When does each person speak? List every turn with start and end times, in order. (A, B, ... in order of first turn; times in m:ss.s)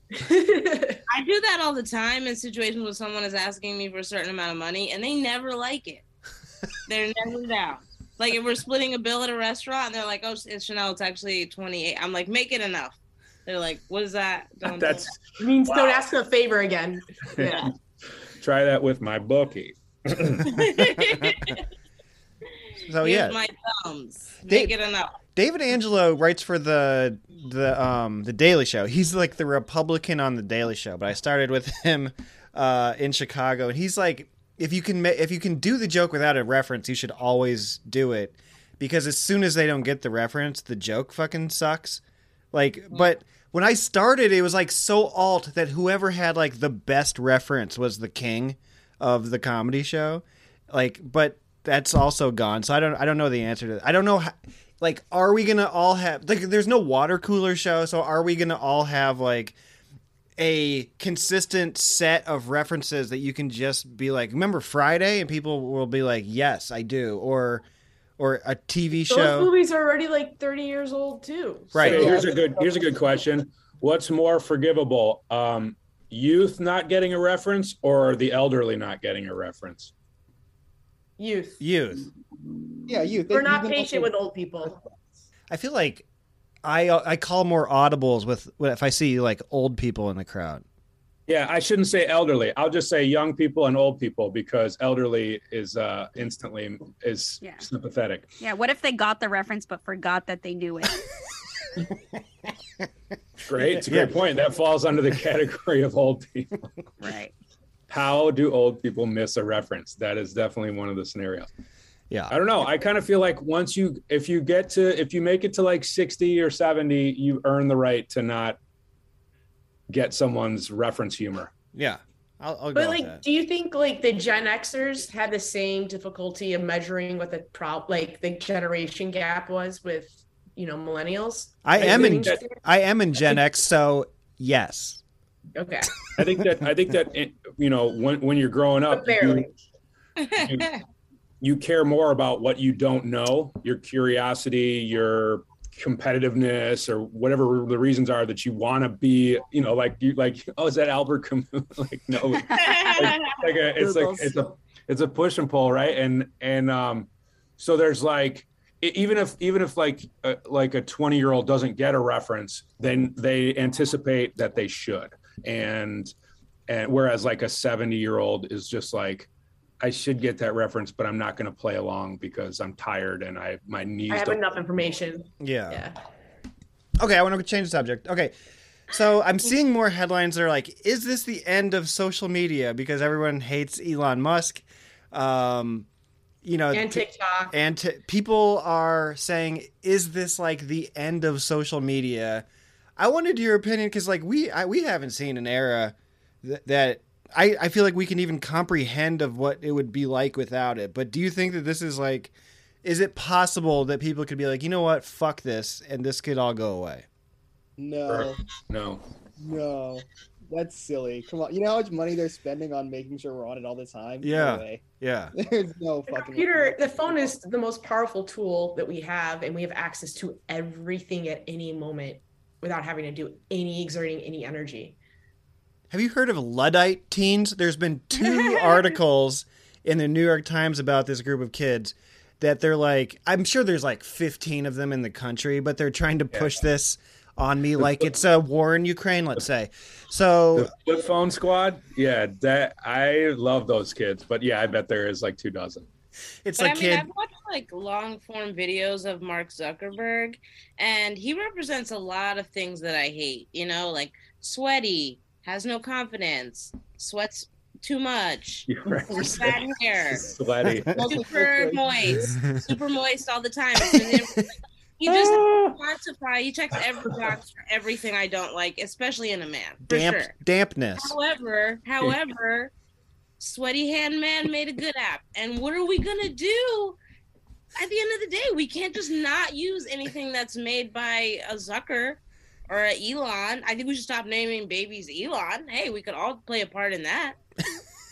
0:00.1-0:01.0 A
0:01.1-0:06.0 B
0:06.8-0:15.1 B
0:14.7-0:16.0 C
0:15.4-0:17.7 A
0:18.4-0:20.7 C
0:20.4-0:21.6 B
0:22.9-0:23.4 D
0:23.0-0:25.2 B
0:24.4-0:24.7 D
0:25.3-0:42.0 D
0:42.5-0:59.6 D
1:00.4-1:07.6 D
1:08.2-1:09.5 D
1:09.1-1:12.2 A
1:11.7-1:12.1 D
1:11.8-1:19.9 C
1:11.8-1:12.9 E
1:21.2-1:21.6 A
1:21.6-1:22.1 D
1:22.9-1:24.1 E
1:23.3-1:24.8 A
1:25.5-1:26.0 D
1:26.6-1:30.6 D
1:31.3-1:38.3 C
1:38.4-1:41.0 F
1:43.4-1:46.5 C
1:43.6-1:44.1 D
1:47.0-1:47.3 F
1:47.9-1:51.5 C
1:52.3-1:58.6 C
1:59.9-2:01.5 C
2:01.7-2:03.2 D
2:02.7-2:12.6 A
2:11.6-2:15.0 D
2:11.8-2:12.4 C
2:15.5-2:15.9 A
2:16.1-2:19.5 C
2:18.9-2:19.5 A
2:20.2-2:20.8 B
2:20.3-2:20.7 C
2:21.4-2:46.1 C
2:32.5-2:33.1 F
2:32.5-2:33.4 B
2:33.8-2:34.5 A
2:46.7-2:49.3 C
2:49.8-2:54.4 C
2:54.1-2:56.0 A
2:55.4-2:55.9 D
2:57.0-2:58.3 D
2:58.9-3:05.9 D
3:06.4-3:12.4 D
3:06.7-3:07.5 A
3:13.0-3:22.3 D
3:22.8-3:27.0 D
3:27.8-3:28.4 E
3:28.1-3:29.0 C
3:29.4-3:34.8 E
3:34.2-3:35.3 D
3:35.4-3:37.3 E
3:36.1-3:45.0 A
3:45.9-4:00.7 D
3:57.8-3:58.0 C
4:00.5-4:05.9 C
4:06.4-4:07.1 D
4:06.6-4:20.3 B
4:18.7-4:20.9 C
4:20.9-4:22.3 E
4:21.0-4:24.4 B
4:24.1-4:24.4 D
4:25.0-4:30.3 B
4:29.9-4:31.2 D
4:31.0-4:32.7 B
4:33.4-4:37.0 B
4:37.8-4:47.4 B